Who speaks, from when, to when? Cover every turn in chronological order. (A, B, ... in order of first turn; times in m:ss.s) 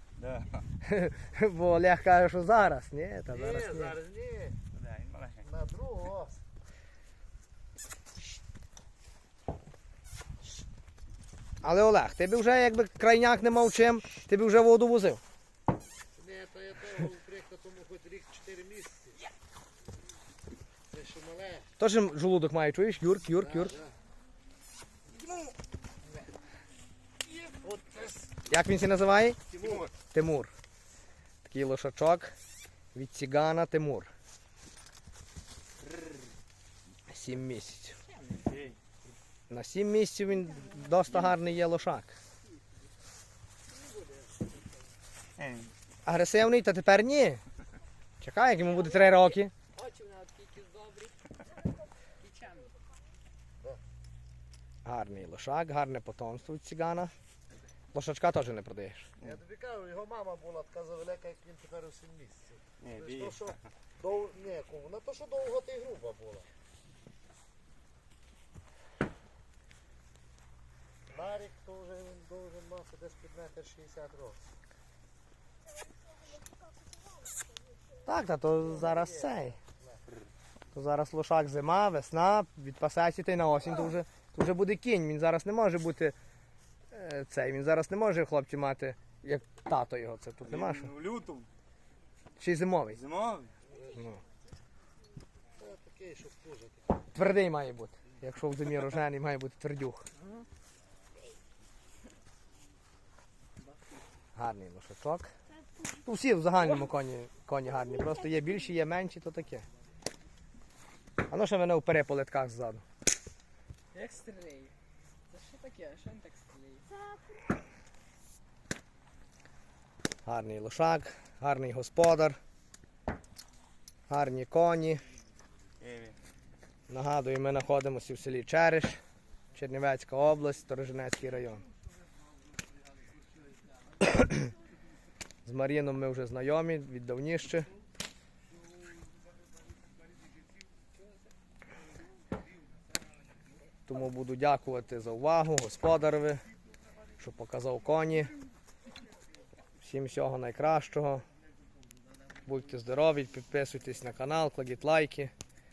0:00.2-0:00.6 A
0:00.8-0:04.0 B
0:03.3-0:04.6 C
0:04.7-0:05.4 A
0:05.4-0:06.4 C
0:11.6-0:15.2 B
0:16.1-0:19.2 C
0:20.9-0:21.7 C
0:21.8-0:23.8 B
0:23.4-0:23.9 C
0:27.3-0:28.3 C
0:28.5-0:29.4 B
0:29.5-0:29.8 C
0:29.6-0:29.9 A
0:30.1-0:30.5 B
0:31.4-0:32.3 B
0:32.9-0:34.1 B
0:37.1-0:38.0 B
0:38.1-0:38.4 D
0:38.4-0:38.8 A
0:39.5-0:42.2 B
0:41.1-0:41.4 A
0:43.7-0:44.4 D
0:45.4-0:45.7 A
0:46.0-0:47.4 B
0:48.2-0:49.5 B
0:48.7-0:51.2 D
0:52.2-0:52.8 D
0:54.8-0:57.1 B
0:57.9-0:59.1 B
0:59.2-1:06.4 C
1:02.8-1:03.5 A
1:11.1-1:14.4 C
1:18.0-1:19.6 B
1:20.7-1:26.1 B
1:26.9-1:30.9 B
1:30.4-1:31.5 A
1:32.4-1:33.0 B
1:32.9-1:33.5 A
1:33.9-1:34.2 B
1:35.6-1:36.8 C
1:37.1-1:40.1 B
1:44.4-1:45.3 B
1:46.0-1:49.6 B
1:51.3-1:52.8 B
1:53.9-1:54.7 D
1:55.3-1:56.9 D
2:00.2-2:02.4 B
2:04.1-2:05.1 B
2:05.8-2:06.2 A
2:06.9-2:09.0 B
2:09.5-2:11.7 B
2:15.4-2:17.7 B
2:23.9-2:26.4 B
2:27.2-2:28.3 B
2:29.8-2:31.2 B
2:32.4-2:35.3 B